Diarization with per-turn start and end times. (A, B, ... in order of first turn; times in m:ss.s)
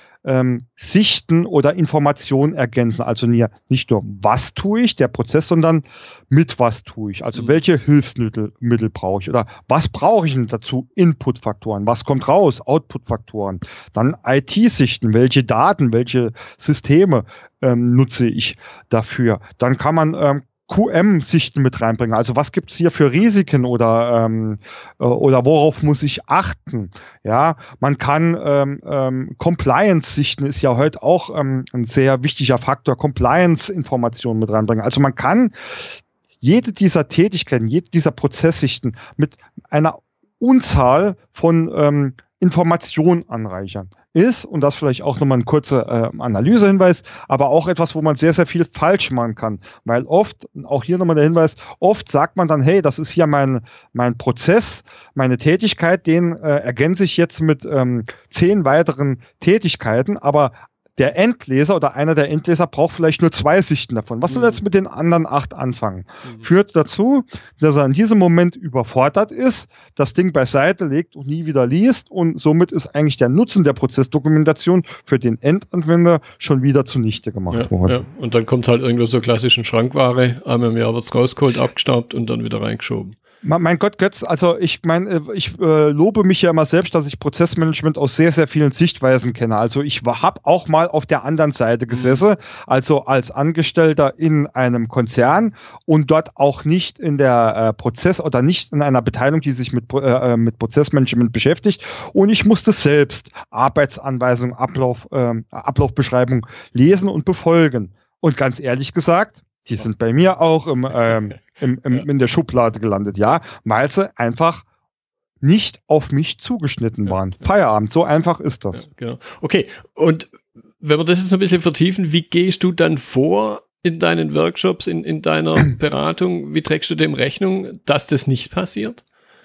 0:00.2-1:18.0 A
0:07.3-0:07.6 B
1:04.3-1:04.6 B
1:17.5-1:23.2 B
1:23.4-1:54.6 A
1:31.9-1:32.2 B
1:55.4-1:58.8 A
1:58.7-2:09.0 B